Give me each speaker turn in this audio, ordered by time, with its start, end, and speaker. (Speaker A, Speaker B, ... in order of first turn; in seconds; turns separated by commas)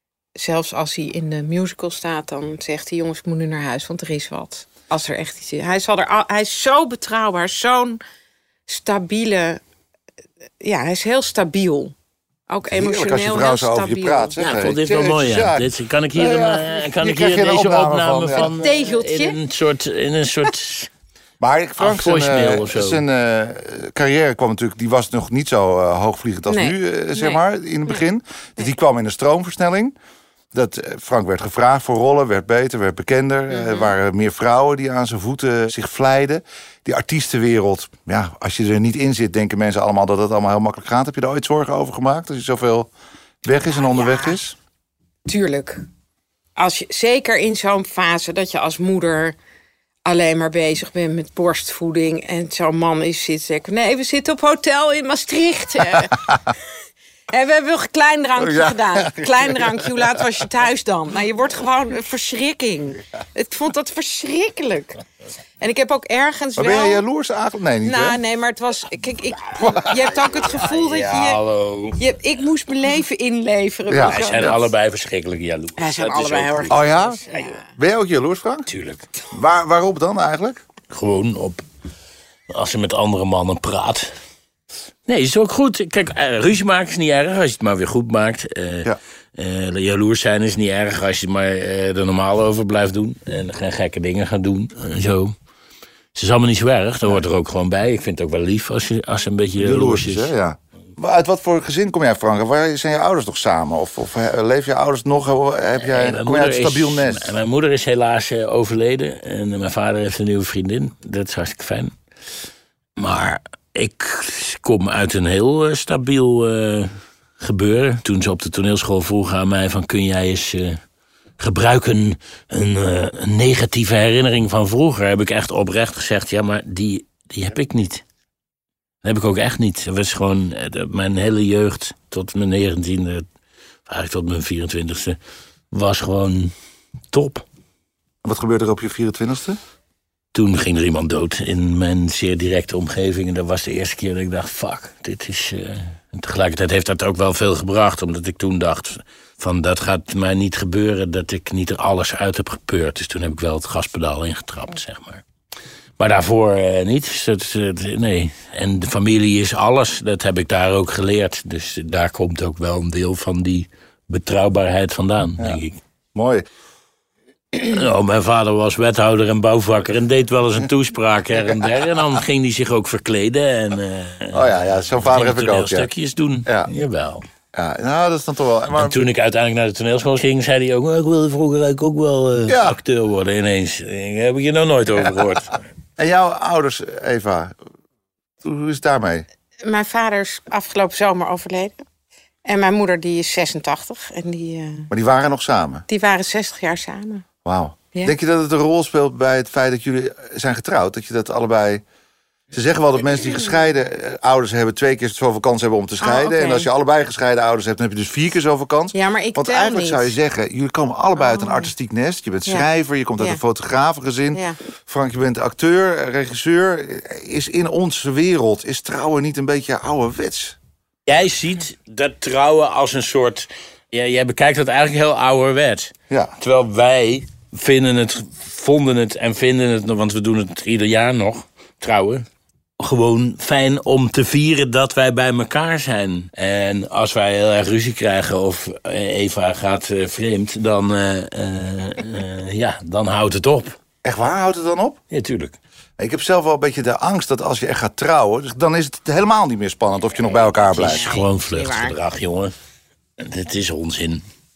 Speaker A: 0.3-8.0, Speaker A: 8.7-9.6, Speaker A: 10.6-11.9, Speaker A: 12.5-14.4, Speaker B: 12.7-18.5, Speaker C: 14.4-20.9, Speaker A: 18.4-19.4, Speaker B: 21.4-30.0, Speaker C: 21.8-23.0, Speaker A: 26.5-28.0, Speaker B: 30.5-42.9, Speaker A: 33.5-33.9, Speaker B: 43.4-44.6, Speaker A: 43.7-44.4, Speaker A: 45.3-45.8, Speaker A: 46.6-49.4, Speaker A: 50.0-56.4, Speaker A: 57.3-65.0, Speaker B: 58.4-60.2, Speaker A: 65.6-67.0, Speaker B: 66.6-68.2, Speaker A: 67.8-71.4, Speaker B: 69.6-70.1, Speaker C: 70.5-72.0, Speaker A: 72.0-74.6, Speaker B: 73.9-74.6, Speaker C: 74.0-76.8, Speaker A: 75.8-77.7, Speaker B: 76.7-78.7, Speaker C: 78.7-79.1, Speaker B: 79.3-80.6, Speaker C: 80.9-81.6, Speaker C: 82.5-84.1, Speaker C: 85.1-95.3, Speaker C: 96.2-100.3, Speaker B: 99.6-107.4, Speaker C: 105.8-111.9, Speaker C: 113.0-120.8, Speaker C: 121.4-128.0, Speaker C: 129.0-133.2, Speaker C: 133.9-135.2, Speaker C: 135.7-136.5, Speaker C: 137.1-137.4, Speaker B: 138.2-139.6, Speaker C: 140.3-155.2, Speaker C: 156.0-165.8, Speaker B: 166.1-166.4, Speaker C: 167.5-174.5, Speaker B: 174.3-175.9, Speaker C: 175.1-177.2, Speaker B: 177.5-179.1, Speaker C: 178.8-185.6, Speaker B: 182.5-182.8, Speaker B: 186.0-187.6, Speaker B: 188.4-189.3, Speaker A: 189.6-191.8, Speaker A: 192.4-194.9, Speaker B: 194.9-195.8, Speaker A: 195.9-197.3, Speaker B: 197.4-201.8, Speaker B: 202.5-220.6, Speaker A: 206.0-206.7, Speaker A: 208.9-210.2, Speaker A: 211.2-211.7, Speaker A: 212.5-213.4, Speaker A: 214.3-214.6, Speaker C: 221.1-232.3, Speaker B: 226.1-226.4, Speaker C: 232.8-243.8, Speaker B: 244.0-245.0, Speaker C: 245.1-245.6, Speaker B: 246.0-251.1, Speaker C: 250.7-252.5, Speaker A: 250.8-252.0, Speaker C: 253.2-254.2